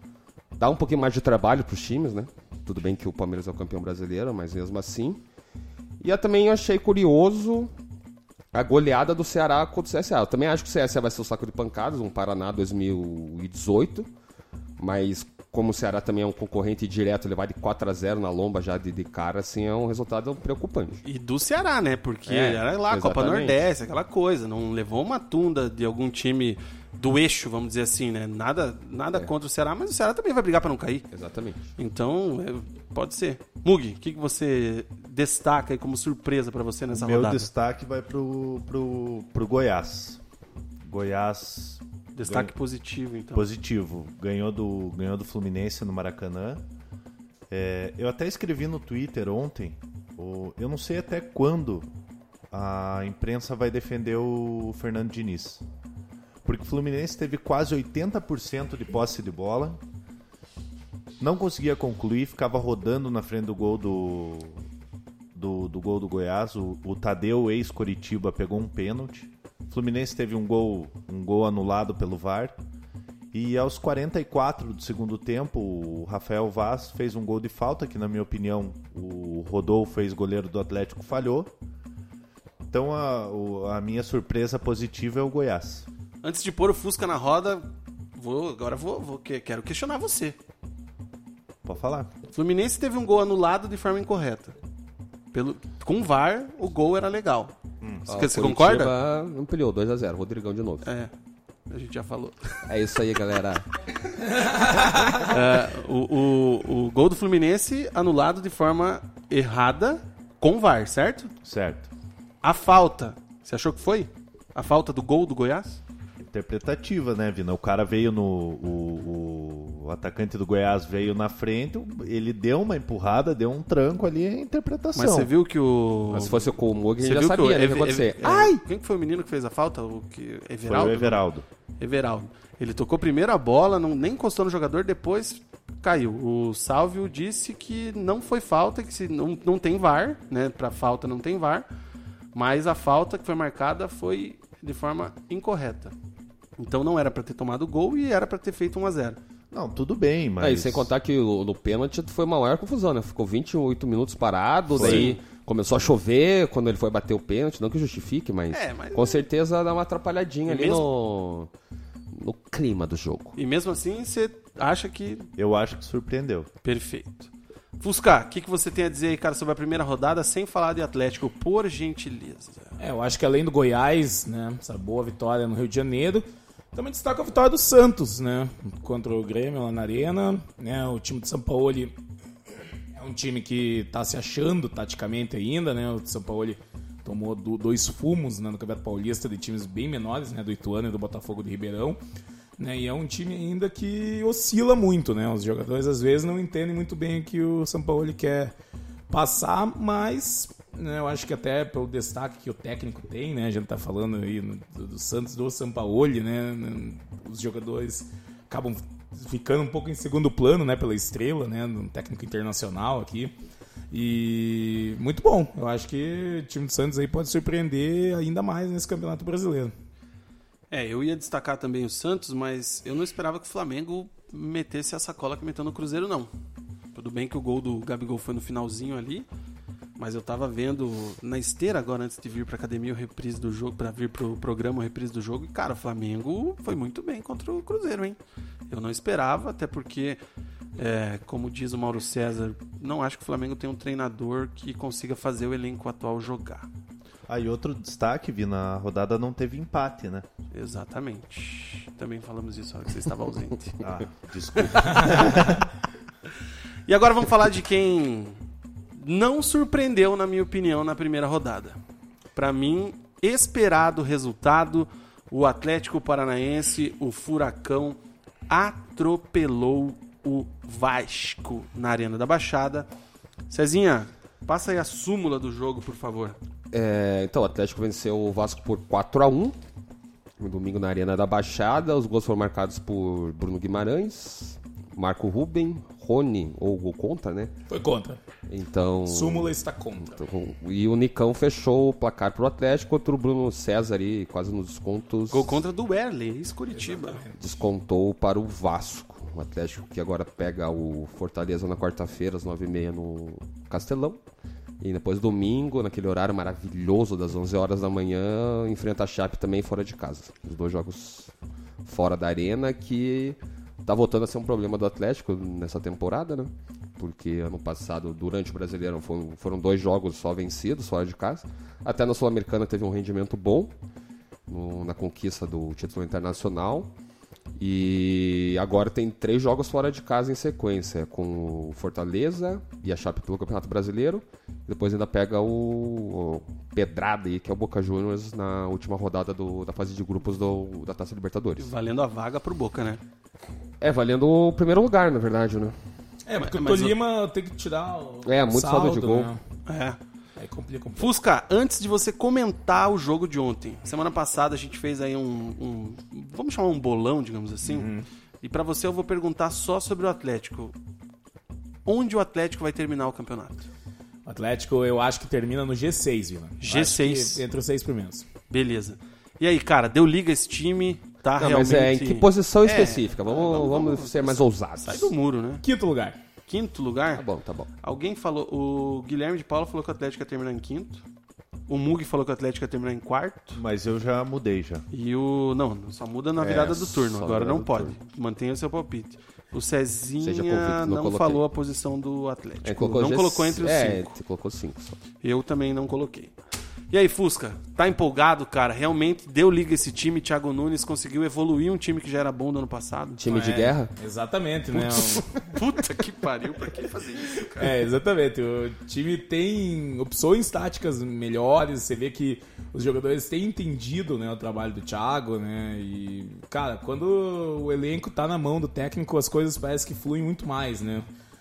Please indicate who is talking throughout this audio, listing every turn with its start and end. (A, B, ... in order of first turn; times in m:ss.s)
0:00.6-0:05.2 A
0:06.0-0:07.7 A
0:08.5-0:14.1 A
0:14.8-0:21.0 A
0:21.0-0:31.1 B
0:22.3-0:23.6 A
0:31.1-0:31.6 A
0:31.8-0:37.5 B
0:36.9-0:40.2 C
0:40.8-0:42.5 C
0:42.2-0:43.4 B
0:43.3-0:46.6 C
0:47.5-0:51.9 C
0:52.5-0:55.6 C
0:56.4-0:59.8 C
1:01.2-1:04.6 C
1:05.3-1:12.6 C
1:13.3-1:21.5 C
1:22.7-1:25.9 C
1:26.2-1:30.4 B
1:31.6-1:32.1 C
1:32.3-1:34.5 B
1:35.3-1:37.5 B
1:38.1-1:38.9 B
1:38.1-1:40.8 A
1:40.8-1:41.1 B
1:41.7-1:42.6 B
1:42.6-1:45.3 A
1:44.4-1:44.7 D
1:45.2-1:51.3 B
1:51.4-1:51.9 C
1:52.4-1:55.8 B
1:56.2-2:05.3 C
2:04.9-2:11.2 B
2:06.1-2:08.6 A
2:10.6-2:11.4 C
2:11.8-2:21.6 B
2:22.3-2:25.9 B
2:26.6-2:29.2 B
2:29.5-2:30.9 C
2:30.4-2:41.5 A
2:34.7-2:35.2 B
2:34.8-2:35.1 C
2:38.5-2:39.3 B
2:40.4-2:40.8 B
2:42.1-2:43.4 A
2:43.4-2:45.3 B
2:45.4-2:46.5 C
2:46.6-2:52.8 B
2:52.8-3:01.9 D
3:02.9-3:12.0 D
3:12.6-3:18.5 D
3:19.1-3:33.3 D
3:33.9-3:39.7 D
3:40.7-3:46.3 B
3:46.9-3:49.2 B
3:50.0-3:58.2 B
3:58.7-4:00.2 B
4:00.8-4:06.7 B
4:07.3-4:10.2 C
4:10.5-4:13.8 B
4:13.8-4:15.6 C
4:14.6-4:15.7 B
4:16.9-4:18.4 B
4:18.9-4:21.8 B
4:22.3-4:28.0 B
4:28.5-4:32.9 B
4:33.5-4:36.4 B
4:36.7-4:39.6 A
4:40.4-4:47.5 A
4:47.7-4:48.2 D
4:48.5-4:55.6 A
4:49.0-4:50.1 D
4:55.3-4:57.2 B
4:56.7-4:57.4 D
4:57.4-5:04.2 A
5:04.8-5:11.3 A
5:11.8-5:23.7 A
5:24.5-5:26.9 A
5:27.6-5:41.7 A
5:41.6-5:43.0 B
5:43.8-5:45.8 A
5:46.2-5:49.4 D
5:46.4-5:47.0 B
5:48.2-5:49.3 A
5:49.7-5:50.0 B
5:50.4-5:51.1 D
5:51.0-5:57.9 B
5:57.6-5:58.0 D
5:58.4-6:00.7 B
6:01.8-6:03.7 B
6:04.2-6:08.2 D
6:06.6-6:07.4 B
6:08.5-6:15.6 B
6:11.4-6:15.1 A
6:15.6-6:16.2 D
6:16.5-6:17.2 B
6:17.1-6:17.7 A
6:17.8-6:21.0 B
6:21.7-6:23.6 B
6:23.5-6:24.8 C
6:24.9-6:34.1 B
6:26.4-6:27.9 A
6:30.2-6:31.4 A
6:32.6-6:35.0 A
6:35.2-6:36.3 B
6:36.9-6:43.6 B
6:43.2-6:43.9 A
6:43.3-6:45.5 D
6:44.7-6:47.7 B
6:47.6-7:01.0 D